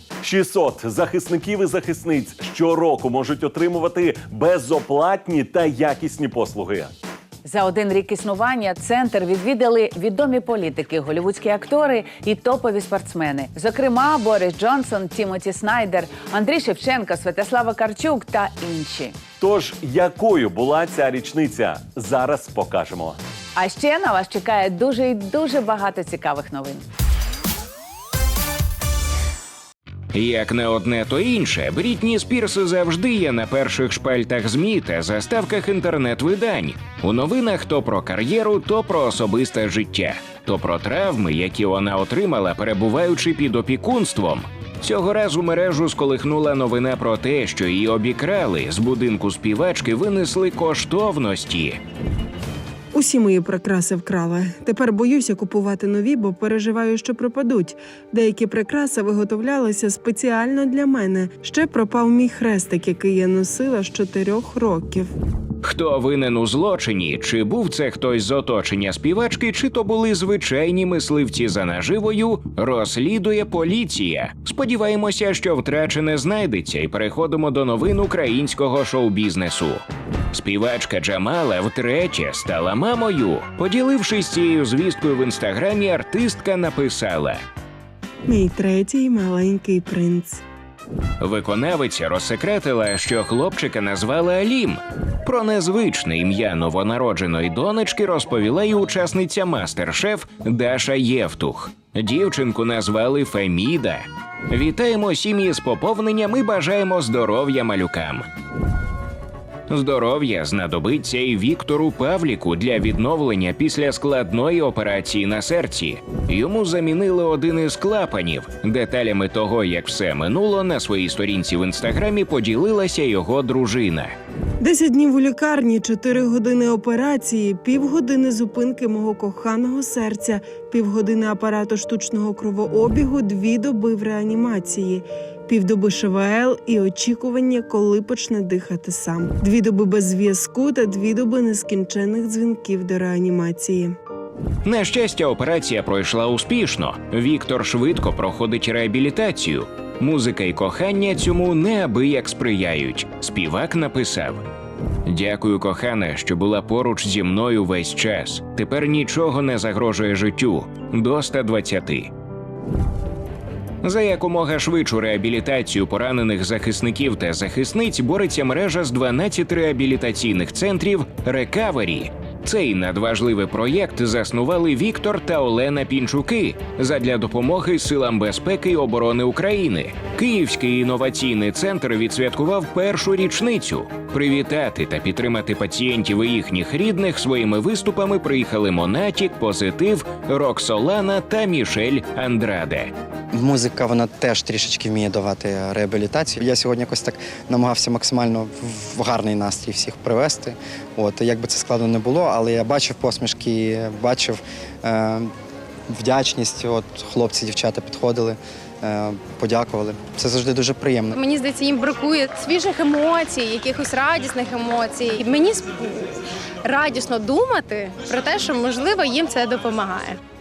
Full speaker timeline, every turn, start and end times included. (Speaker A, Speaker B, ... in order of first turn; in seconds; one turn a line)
Speaker A: 0.2-6.9
Speaker B: 7.5-19.1
Speaker A: 19.4-23.2
Speaker B: 23.6-26.8
Speaker C: 30.1-51.8
Speaker D: 52.9-65.1
Speaker C: 65.6-87.4
Speaker D: 88.3-90.4
Speaker C: 91.2-108.3
Speaker C: 109.7-124.1
Speaker D: 124.6-143.9
Speaker C: 144.7-154.4
Speaker C: 155.1-162.1
Speaker C: 163.8-192.9
Speaker E: 193.3-205.3
Speaker E: 205.9-211.2
Speaker F: 211.2-220.2